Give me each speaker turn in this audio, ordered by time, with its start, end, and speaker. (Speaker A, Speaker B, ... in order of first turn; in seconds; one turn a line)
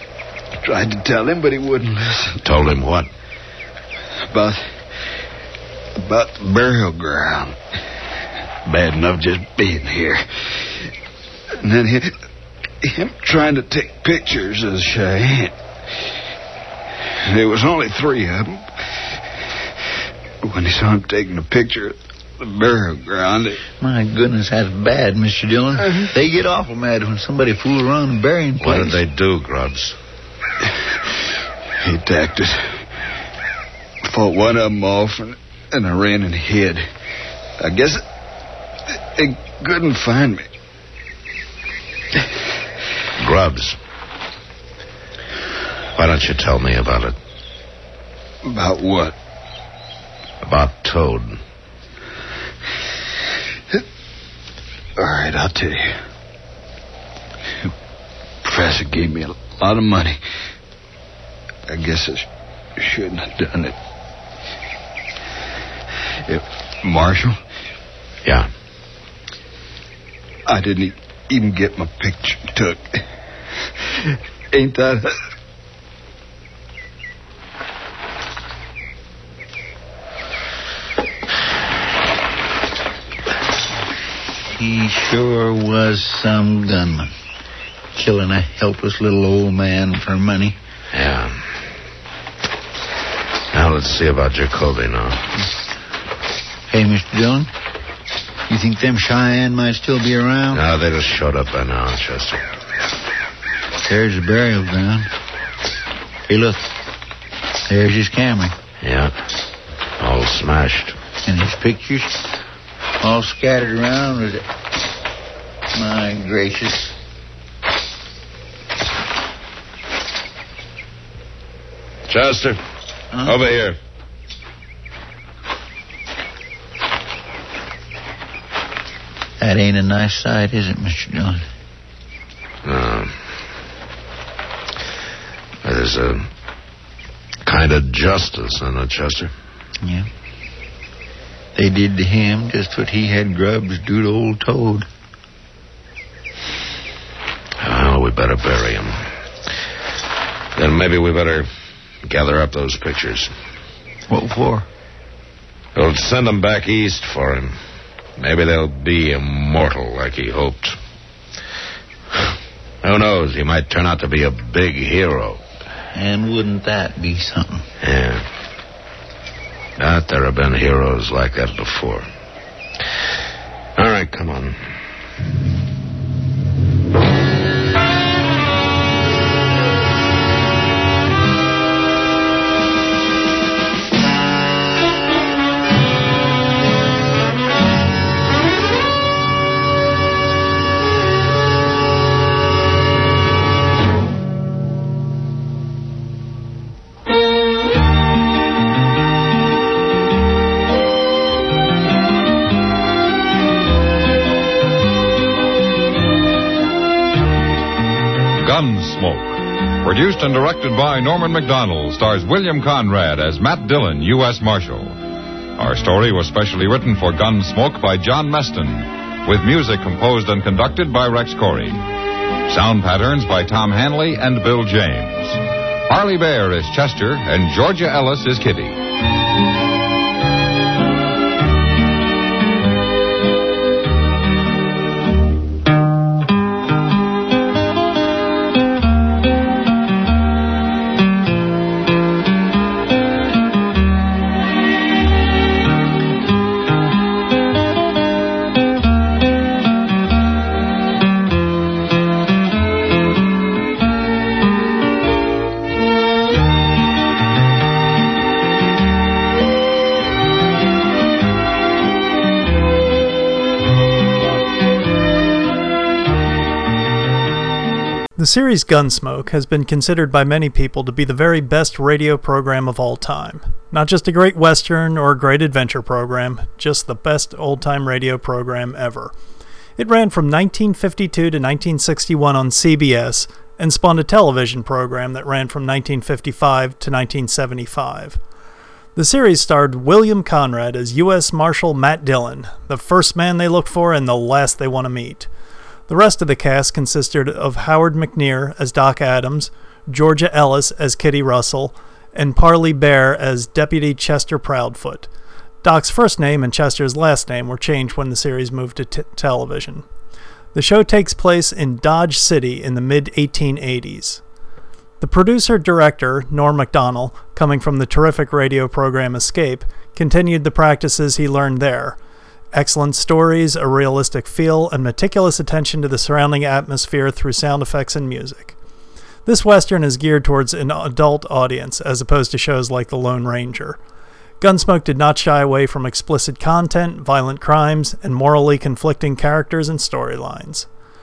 Speaker A: 0.6-2.4
Speaker B: 2.4-3.1
Speaker A: 4.3-4.7
Speaker A: 6.0-7.6
Speaker A: 8.7-10.9
Speaker A: 11.6-12.1
Speaker A: 12.8-15.5
Speaker A: 17.2-18.7
Speaker A: 20.4-23.6
Speaker C: 23.8-29.0
Speaker B: 28.6-29.9
Speaker A: 30.6-31.3
Speaker A: 31.8-32.8
Speaker A: 34.0-36.8
Speaker A: 37.6-38.0
Speaker A: 39.1-40.5
Speaker B: 43.2-43.8
Speaker B: 46.0-47.1
Speaker A: 48.4-49.1
Speaker B: 50.4-51.4
Speaker A: 55.0-56.0
Speaker A: 58.4-60.2
Speaker A: 61.7-63.7
Speaker A: 66.2-67.4
Speaker A: 70.5-73.0
Speaker A: 73.8-75.1
Speaker C: 84.5-87.1
Speaker C: 87.9-90.6
Speaker B: 90.9-91.4
Speaker B: 93.5-95.2
Speaker C: 96.7-97.5
Speaker C: 98.5-100.6
Speaker B: 100.5-102.4
Speaker C: 103.8-105.1
Speaker C: 106.3-106.6
Speaker C: 107.7-108.5
Speaker B: 108.8-109.1
Speaker B: 110.0-111.0
Speaker C: 111.2-112.2
Speaker C: 113.0-114.5
Speaker C: 115.7-116.9
Speaker B: 122.1-122.6
Speaker C: 123.1-123.4
Speaker B: 123.2-123.8
Speaker C: 129.4-131.4
Speaker B: 132.6-133.1
Speaker B: 135.6-136.3
Speaker B: 137.4-139.3
Speaker C: 139.8-140.1
Speaker C: 141.5-144.9
Speaker B: 147.6-149.1
Speaker B: 150.5-151.5
Speaker B: 152.0-153.3
Speaker C: 154.1-154.7
Speaker B: 155.7-157.6
Speaker B: 158.2-160.8
Speaker B: 162.1-165.4
Speaker C: 165.9-167.6
Speaker B: 167.8-168.2
Speaker B: 169.8-172.1
Speaker B: 173.8-174.6
Speaker D: 208.4-215.0
Speaker D: 215.6-221.8
Speaker D: 222.5-228.8
Speaker E: 268.2-279.1
Speaker E: 279.8-288.2
Speaker E: 288.9-295.3
Speaker E: 295.9-305.1
Speaker E: 305.6-309.8
Speaker E: 310.5-314.2
Speaker E: 315.0-322.0
Speaker E: 322.5-328.5
Speaker E: 329.2-333.8
Speaker E: 334.4-340.7